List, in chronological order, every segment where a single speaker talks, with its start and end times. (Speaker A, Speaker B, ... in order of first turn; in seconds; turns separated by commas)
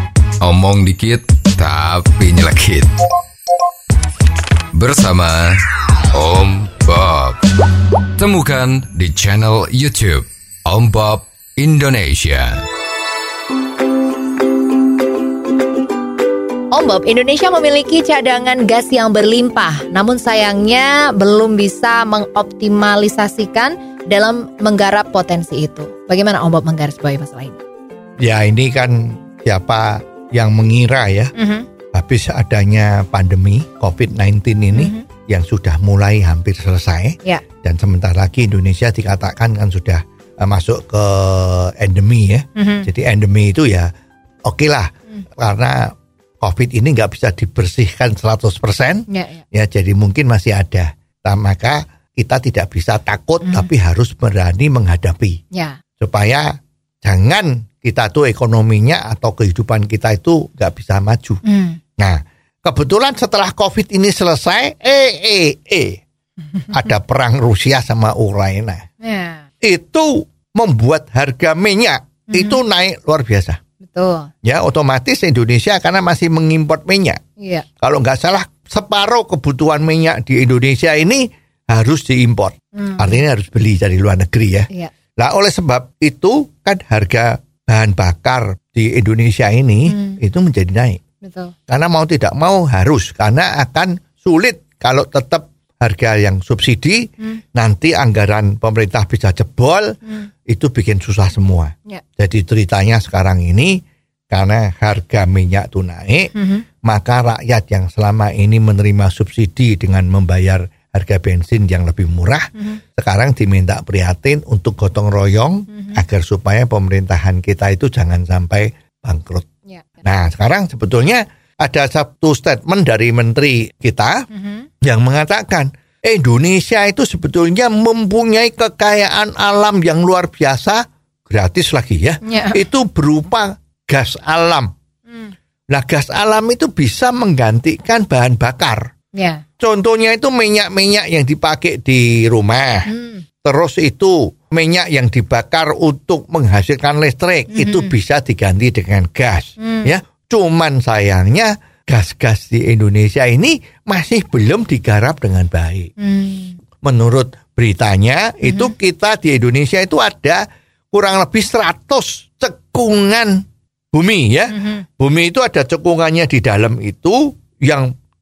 Speaker A: 0.4-2.9, Speaker A: 4.7-5.6, Speaker A: 6.1-7.4, Speaker A: 8.2-12.6, Speaker B: 16.7-27.6, Speaker C: 28.2-31.3, Speaker B: 31.4-31.7, Speaker C: 31.9-43.9, Speaker B: 34.8-35.1, Speaker B: 42.6-42.9, Speaker C: 44.5-55.4, Speaker B: 49.1-49.4, Speaker B: 55.5-55.8, Speaker C: 56.0-61.4, Speaker B: 61.4-61.8, Speaker C: 62.0-66.0, Speaker C: 66.7-68.8, Speaker B: 69.0-69.5, Speaker C: 69.6-73.6, Speaker B: 72.3-72.6, Speaker B: 73.8-74.3, Speaker C: 74.4-77.2, Speaker B: 77.4-77.7, Speaker C: 77.8-91.0, Speaker B: 82.7-83.2, Speaker B: 89.9-90.2, Speaker B: 91.2-91.5, Speaker C: 91.7-100.0, Speaker C: 100.5-103.8, Speaker C: 104.3-106.3, Speaker B: 106.3-106.7, Speaker C: 106.8-119.5, Speaker B: 115.7-116.0, Speaker B: 119.7-120.0, Speaker C: 120.0-124.2, Speaker B: 124.3-124.7, Speaker C: 124.8-134.7, Speaker B: 132.2-132.6, Speaker B: 135.1-135.3, Speaker C: 135.7-138.9, Speaker B: 139.1-139.4, Speaker C: 139.6-142.9, Speaker B: 142.9-143.2, Speaker C: 143.4-155.9, Speaker B: 147.5-147.9, Speaker B: 149.6-149.9, Speaker B: 156.0-156.6, Speaker C: 156.8-167.9, Speaker B: 158.5-158.7, Speaker B: 164.5-164.8